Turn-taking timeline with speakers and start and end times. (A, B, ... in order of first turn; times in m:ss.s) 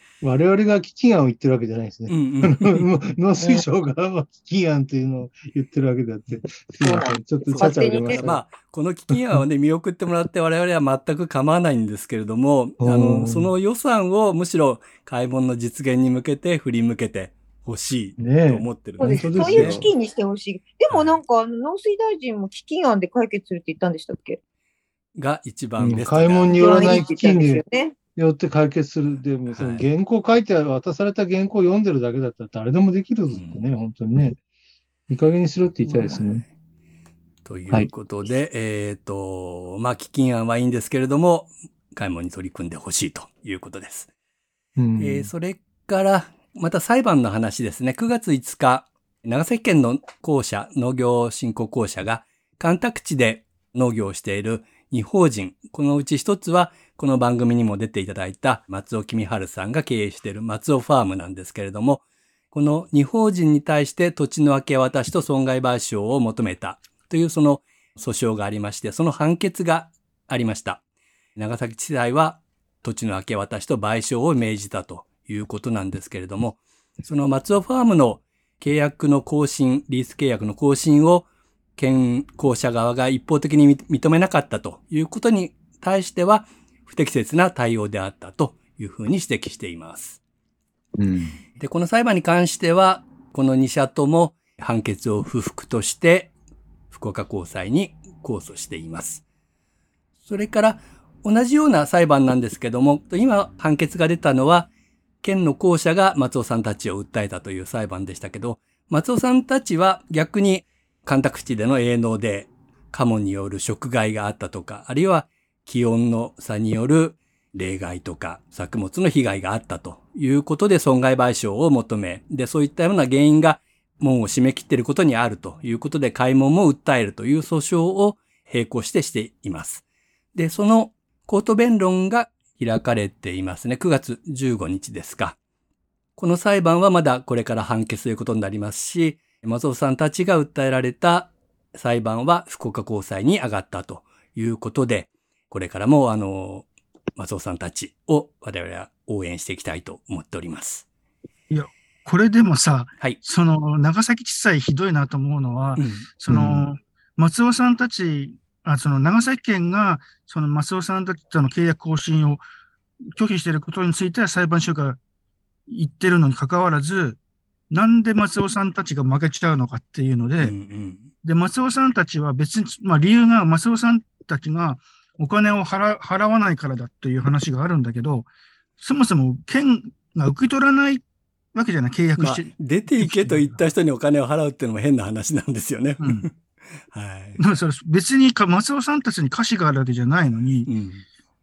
0:00.2-0:08.4 A
0:02.1-0:02.9 B
0:06.8-0:08.2 C
0:07.4-0:19.9 B
0:09.1-0:09.4 A
0:12.8-0:13.5 A
0:18.2-0:19.9 A
0:19.0-0:24.4 C
0:20.9-0:21.2 B
0:25.1-0:27.0 B
0:25.8-0:27.6 A
0:26.6-0:28.0 C
0:28.1-0:34.4 A
0:29.5-0:29.8 B
0:33.3-0:33.6 B
0:35.1-0:36.4 A
0:36.0-0:36.4 B
0:37.4-0:44.1 B
0:44.8-0:45.3 A
0:45.0-1:10.8 B
1:11.4-1:30.2 B
1:31.0-1:31.4 A
1:31.6-1:36.3 B
1:36.9-1:39.2 B
1:40.2-1:44.7 B
1:45.2-2:09.8 B
2:10.3-2:15.4 B
2:16.2-2:30.8 B
2:31.5-2:42.4 D
2:35.8-2:36.1 B
2:36.3-2:36.6 A
2:43.2-2:45.0 D
2:45.7-2:47.2 D
2:47.7-2:50.5 D
2:50.4-2:51.1 B
2:51.2-3:01.0 D
3:01.5-3:03.6 D
3:02.2-3:06.3 B
3:06.0-3:06.3 D
3:06.9-3:07.4 B
3:07.4-3:10.7 D
3:10.6-3:11.0 B